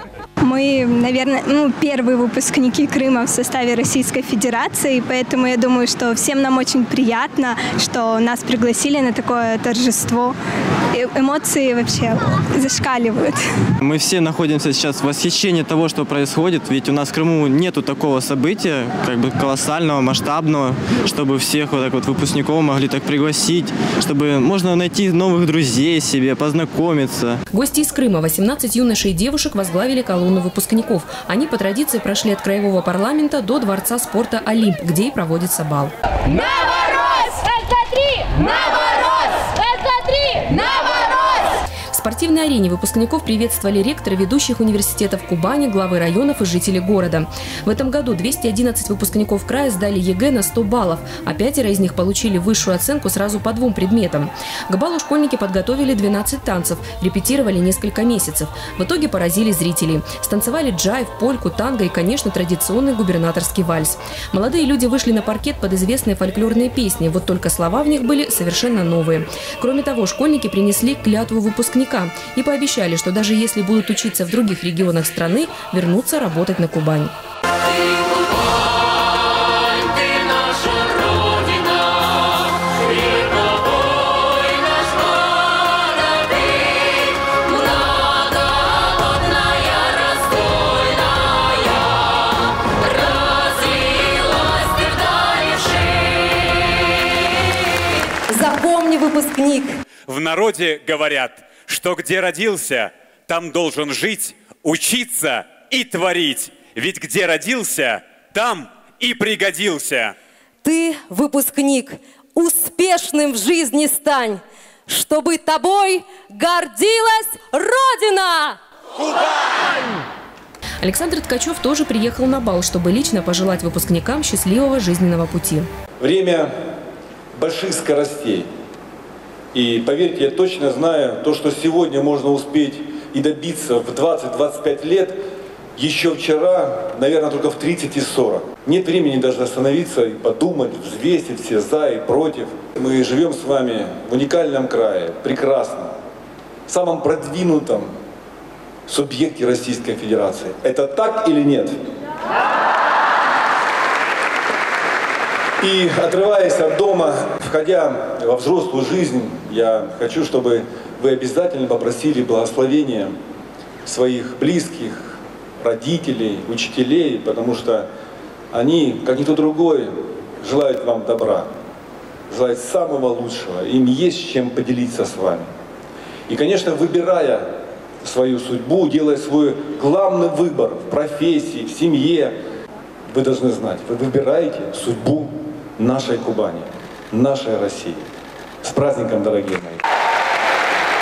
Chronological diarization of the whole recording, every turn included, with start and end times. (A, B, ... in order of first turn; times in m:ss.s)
0:00.4-0:10.3 A
0:10.9-0:13.4 A
0:13.8-0:27.4 B
0:27.5-0:35.9 C
0:36.5-0:41.3 D
0:41.9-1:17.1 C
1:19.9-1:21.9 D
1:22.7-1:23.4 D
1:24.7-1:25.0 D
1:25.6-1:26.3 D
1:27.0-1:28.1 D
1:29.4-1:30.8 D
1:33.6-1:34.0 D
1:34.6-1:35.9 D
1:38.3-1:39.8 D
1:40.1-1:50.1 E
1:50.6-1:58.6 D
2:00.8-2:05.7 C
2:06.0-2:06.5 F
2:07.3-2:08.5 F
2:09.5-2:15.2 F
2:15.8-2:25.9 F
2:26.7-2:27.9 F
2:28.9-2:31.8 F
2:35.6-2:43.1 F
2:43.8-2:47.9 F
2:48.5-2:51.5 F
2:52.3-2:55.5 F
2:56.3-2:57.5 F
2:58.0-3:02.3 F
3:03.1-3:08.0 F
3:08.6-3:09.8 F